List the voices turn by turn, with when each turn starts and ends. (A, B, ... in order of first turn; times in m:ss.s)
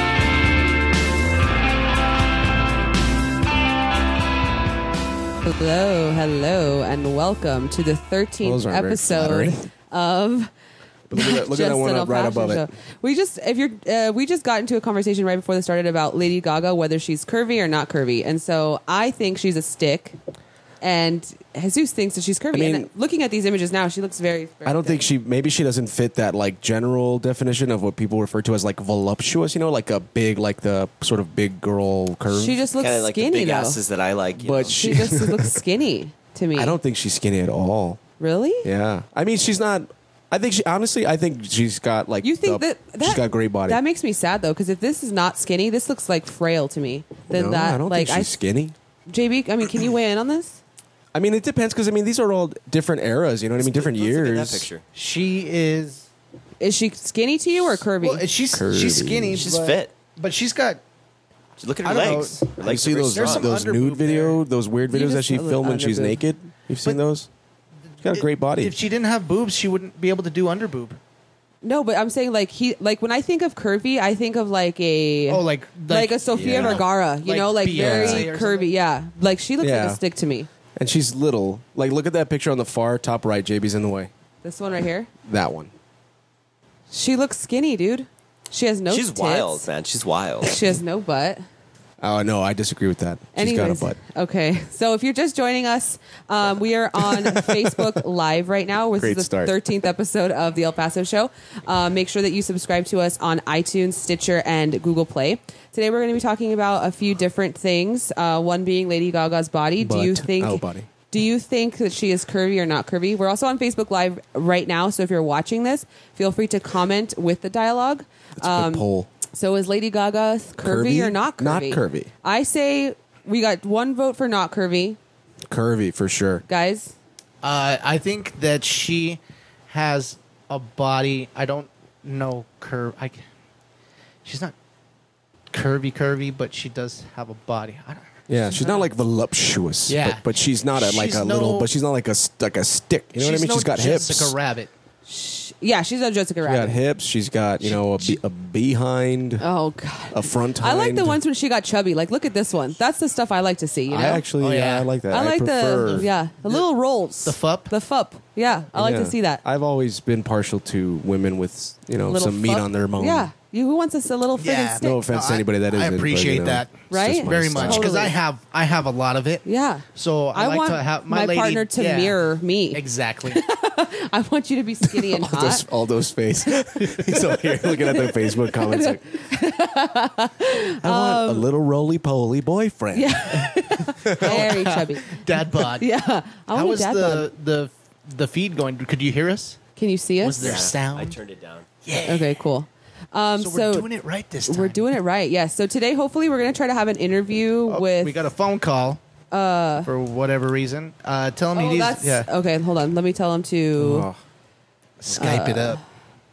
0:05.4-0:10.5 A
0:08.4-0:09.7 B
0:11.1-0:12.6 B
0:11.2-0:20.2 A
0:20.8-0:25.1 A
0:22.5-0:22.9 B
0:24.6-0:32.6 B
0:32.3-0:33.8 A
0:32.8-0:34.9 C
0:34.4-0:35.6 B
0:34.8-0:36.7 A
0:36.5-0:38.0 B
0:38.2-0:38.7 A
0:38.6-0:43.8 B
0:42.2-0:48.3 A
0:47.3-0:48.7 B
0:49.1-0:50.6 A
0:51.1-0:54.7 B
0:53.6-0:54.8 C
0:54.9-0:56.1 D
0:56.6-0:58.3 A
0:57.7-1:00.8 D
0:58.5-0:59.4 B
0:59.3-0:59.9 C
1:01.6-1:03.5 C
1:01.8-1:04.4 D
1:02.6-1:07.3 B
1:04.9-1:06.2 A
1:08.0-1:08.7 B
1:08.0-1:11.0 D
1:11.6-1:20.5 A
1:15.3-1:18.7 D
1:16.3-1:16.8 C
1:16.4-1:16.8 B
1:17.7-1:18.3 B
1:19.6-1:20.0 B
1:20.8-1:24.1 B
1:24.4-1:25.1 A
1:25.2-1:25.7 B
1:26.9-1:29.6 A
1:28.9-1:30.5 C
1:30.4-1:31.4 A
1:32.0-1:34.0 B
1:33.3-2:05.0 A
1:37.0-1:37.9 B
1:39.0-1:39.5 B
1:49.8-1:50.9 B
1:58.4-1:59.1 B
2:00.6-2:02.1 B
2:05.5-2:06.4 B
2:06.5-2:06.9 A
2:07.4-2:13.2 D
2:14.2-2:14.5 D
2:15.5-2:18.6 D
2:18.3-2:24.4 B
2:18.6-2:18.8 A
2:19.9-2:21.7 D
2:23.2-2:24.7 D
2:25.1-2:26.8 A
2:26.4-2:29.4 B
2:27.6-2:28.2 D
2:29.4-2:34.2 A
2:30.1-2:31.2 B
2:33.9-2:36.1 B
2:34.4-2:34.9 D
2:35.1-2:39.4 A
2:37.2-2:37.7 D
2:38.7-2:43.3 B
2:42.1-2:45.0 A
2:44.4-2:52.2 D
2:44.8-2:47.8 B
2:46.9-2:48.2 A
2:49.4-2:55.6 A
2:52.7-2:53.4 D
2:54.9-2:59.2 B
2:56.6-3:01.5 A
3:00.8-3:04.5 B
3:02.9-3:07.3 A
3:04.2-3:05.9 D
3:06.5-3:09.6 D
3:09.8-3:10.6 A
3:10.2-3:11.2 D
3:10.4-3:11.7 C
3:11.8-3:12.4 D
3:12.0-3:13.9 A
3:13.4-3:14.8 D
3:14.5-3:18.2 A
3:17.7-3:19.0 D
3:19.3-3:19.9 A
3:19.8-3:22.3 D
3:21.5-3:24.1 A
3:23.8-3:24.2 B
3:25.0-3:25.8 D
3:25.1-3:25.8 A